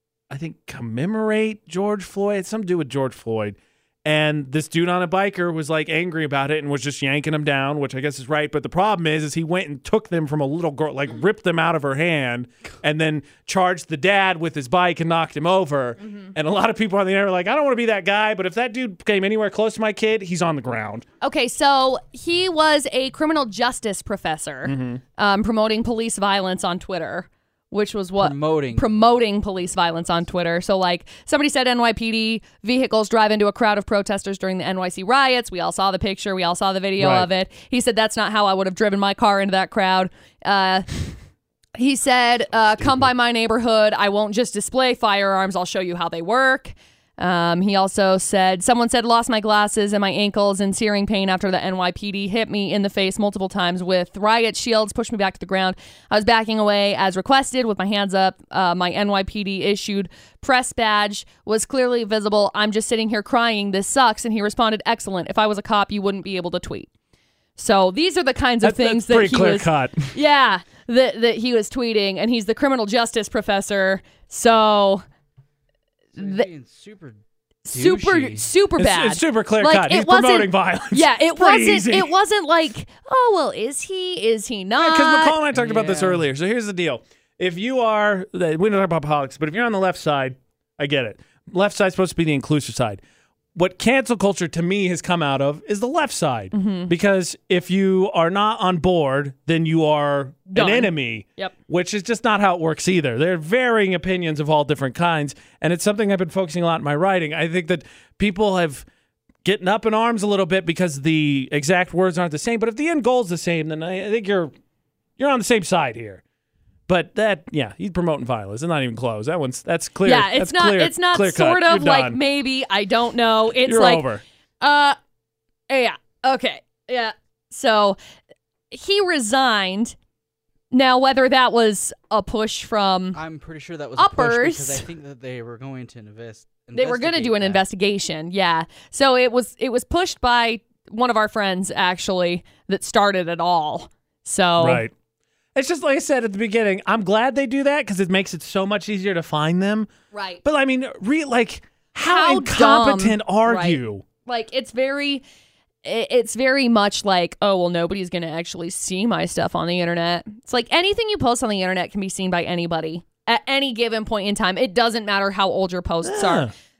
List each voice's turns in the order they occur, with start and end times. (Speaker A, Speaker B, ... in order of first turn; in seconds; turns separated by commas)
Speaker A: 0.3-21.0, Speaker B: 16.0-16.3, Speaker B: 21.2-41.1, Speaker A: 24.6-25.0, Speaker C: 28.2-28.9, Speaker A: 37.0-37.3, Speaker B: 41.8-66.9, Speaker B: 67.6-75.0, Speaker A: 68.6-70.2, Speaker C: 76.1-78.5, Speaker B: 76.2-76.5, Speaker B: 77.6-85.4, Speaker A: 78.8-82.1, Speaker A: 84.8-93.0, Speaker C: 85.5-86.2, Speaker A: 93.5-108.8, Speaker B: 96.5-96.9, Speaker B: 100.5-101.5, Speaker A: 109.4-114.5, Speaker A: 115.2-116.2, Speaker A: 116.9-122.2, Speaker B: 120.0-124.1, Speaker A: 123.6-124.2, Speaker B: 124.6-125.0, Speaker B: 125.7-128.0, Speaker B: 128.7-129.9, Speaker B: 130.7-133.2, Speaker C: 133.1-137.6, Speaker B: 134.0-134.8, Speaker B: 136.7-144.8, Speaker A: 144.6-144.9, Speaker A: 145.5-149.9, Speaker B: 150.1-150.4, Speaker A: 150.4-154.0, Speaker B: 152.0-155.2, Speaker B: 155.8-166.5, Speaker A: 166.0-166.5